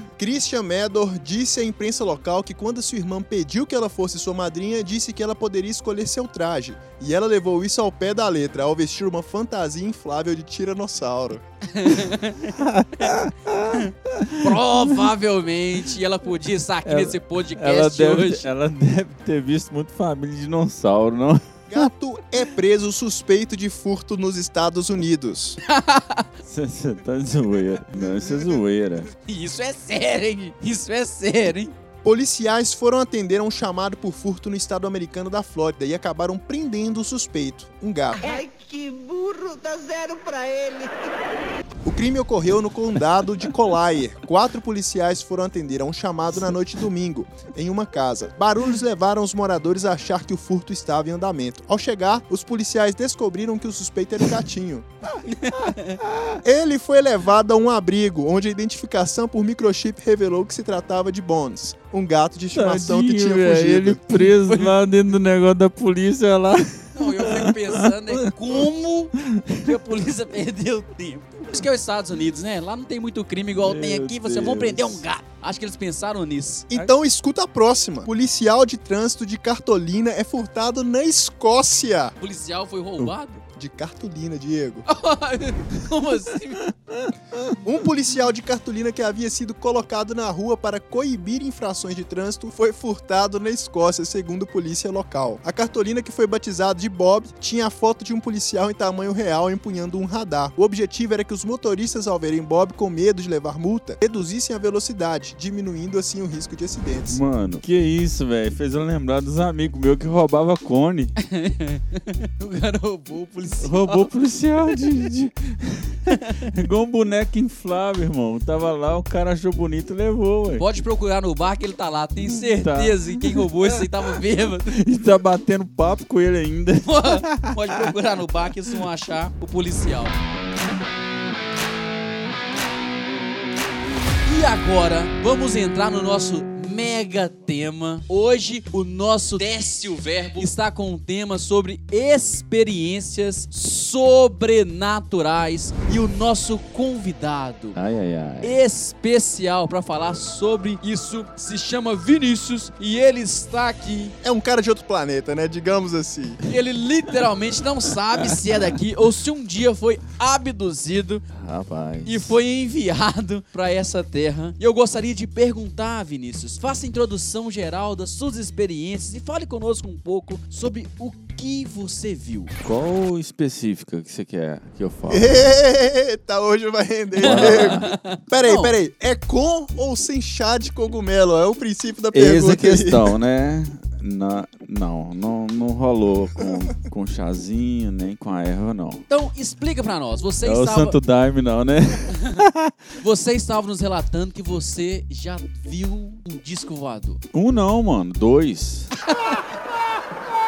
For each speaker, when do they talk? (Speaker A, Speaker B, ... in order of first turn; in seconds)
Speaker A: 0.2-11.4, 21.7-25.6, 28.1-28.5, 32.0-38.2, 41.8-54.9, 56.4-64.2, 76.7-82.2, 83.5-84.9, 87.6-107.2, 154.2-156.4, 175.1-183.2
Speaker B: 11.7-13.1, 13.7-18.4, 25.7-26.3, 29.2-31.7, 55.3-56.0, 64.4-64.7, 66.9-76.7, 82.2-83.4, 84.9-86.6, 111.2-114.1, 120.6-124.8, 126.8-130.2, 134.2-147.8, 148.4-154.1, 156.5-161.2, 162.1-172.5, 177.2-178.7, 189.1-191.0, 193.0-197.2
Speaker C: 12.5-15.1, 16.8-21.9, 26.4-29.1, 55.5-56.4, 62.5-68.6, 69.2-69.7, 73.6-75.0, 86.7-87.5, 107.1-111.1, 113.6-120.7, 122.2-127.9, 147.7-148.6, 161.3-162.3, 172.6-175.4, 177.2-177.8, 182.1-189.0, 190.4-192.8, 197.3-198.9
Speaker D: 38.2-40.9